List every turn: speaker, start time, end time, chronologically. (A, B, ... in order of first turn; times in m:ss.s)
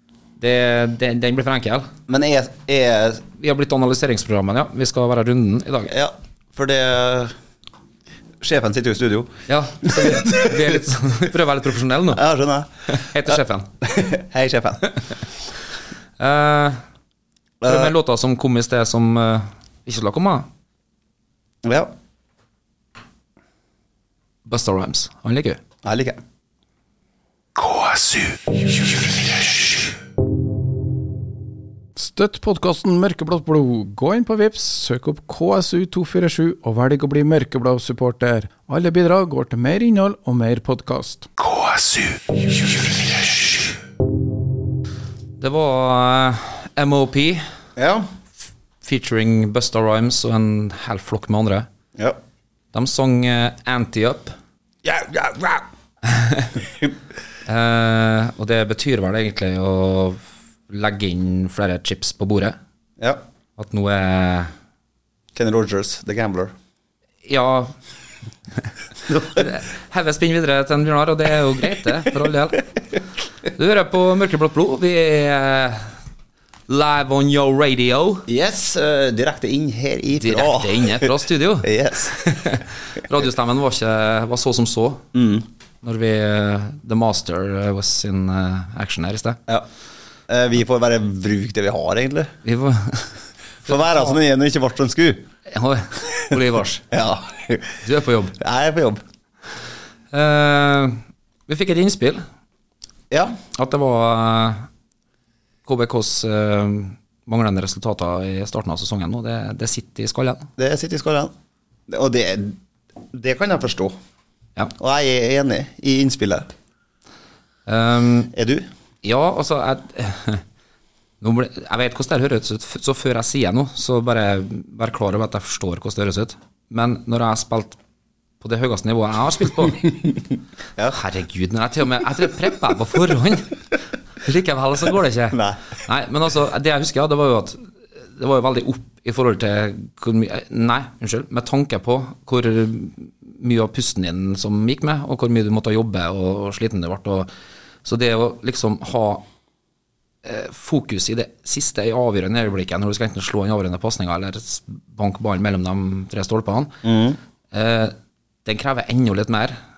0:00.4-0:01.9 A
0:02.1-0:03.2 B
0:03.4-0:05.9 A
0:05.9-0:07.3 B
0:08.4-0:10.8 B
0:09.5-0:12.2 A
0:12.1-0:12.7 B
0:12.9-0:13.7 A
0:13.2-0:15.0 B
0:16.2-0:16.8 A
0:17.6-0:17.9 B
0:17.6-0:20.5 A
0:21.6-0:21.9 B
0:24.4-0:25.6 A
0:25.8-0:26.2 B
0:28.7-0:29.6 C
0:32.0-0:41.5 C
0:42.6-0:43.4 C
0:45.4-0:47.4 A
0:47.8-0:48.1 B
0:48.8-0:51.7 A
0:52.7-0:54.4 A
0:54.8-0:55.6 B
0:56.0-0:56.5 A
0:57.4-1:02.6 A
1:03.6-1:04.5 A
1:05.3-1:06.5 B
1:07.2-1:07.7 A
1:09.1-1:09.4 B
1:09.2-1:12.6 A
1:13.5-1:15.9 A
1:16.7-1:18.2 A
1:18.3-1:22.2 B
1:20.2-1:25.0 A
1:25.1-1:25.4 B
1:25.8-1:29.4 A
1:30.3-1:32.3 B
1:32.4-1:33.1 A
1:33.6-1:35.2 B
1:33.7-1:34.0 A
1:35.5-1:36.9 A
1:36.9-1:37.8 B
1:37.8-1:38.4 A
1:38.4-1:39.0 B
1:40.1-1:42.2 A
1:43.1-1:43.4 B
1:43.5-1:44.7 A
1:45.6-1:50.5 A
1:50.6-1:51.3 B
1:51.9-1:52.6 B
1:53.1-1:54.0 B
1:54.8-1:56.5 B
1:57.6-1:58.3 A
1:58.3-1:58.7 B
1:59.0-2:00.4 A
2:01.2-2:07.8 A
2:08.4-2:09.9 A
2:10.9-2:13.6 A
2:14.2-2:27.3 A
2:15.3-2:15.6 B
2:27.8-2:29.2 A
2:30.2-2:36.8 A
2:36.8-2:37.2 B
2:37.5-2:39.6 A